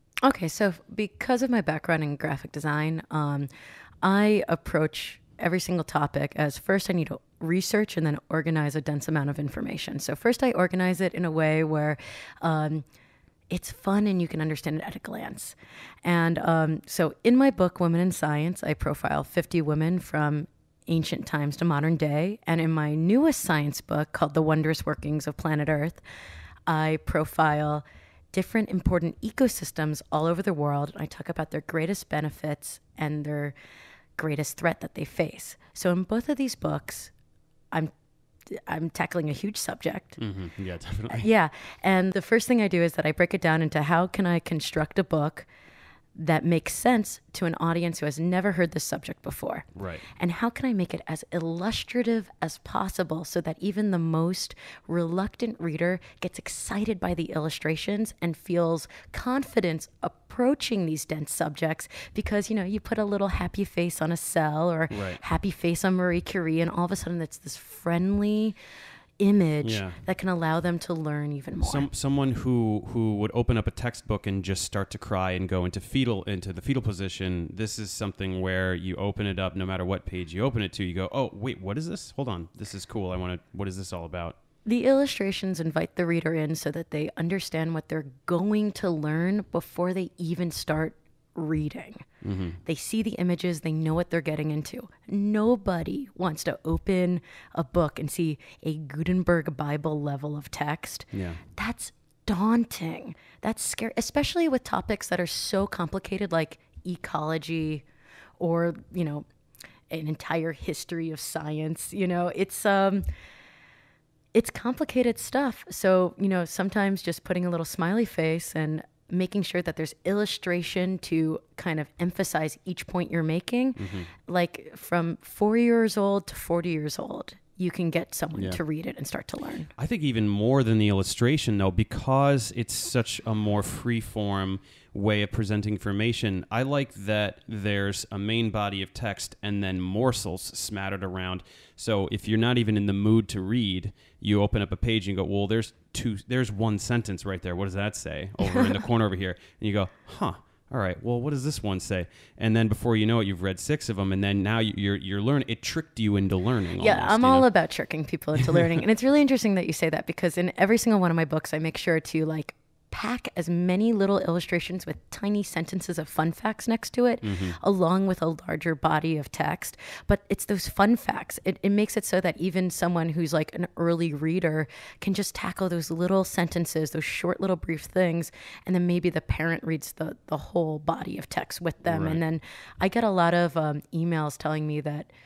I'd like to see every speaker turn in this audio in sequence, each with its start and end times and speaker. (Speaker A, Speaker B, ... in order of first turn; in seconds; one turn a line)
Speaker A: 0.2-3.5
Speaker A: 4.0-12.8
Speaker A: 13.5-26.0
Speaker A: 26.7-33.5
Speaker A: 34.2-37.1
Speaker A: 38.5-40.2
Speaker B: 40.2-41.3
Speaker A: 41.1-45.5
Speaker A: 46.1-68.6
Speaker B: 49.8-50.0
Speaker B: 64.9-65.2
Speaker A: 69.2-71.9
Speaker B: 69.6-70.0
Speaker B: 71.6-84.4
Speaker A: 84.6-92.0
Speaker B: 92.2-92.6
Speaker A: 92.7-107.8
Speaker B: 101.1-101.4
Speaker A: 108.4-109.2
Speaker A: 109.9-113.0
Speaker A: 114.3-129.7
Speaker B: 123.8-124.1
Speaker B: 129.8-157.5
Speaker A: 156.8-185.1
Speaker B: 167.2-167.6
Speaker B: 181.8-182.2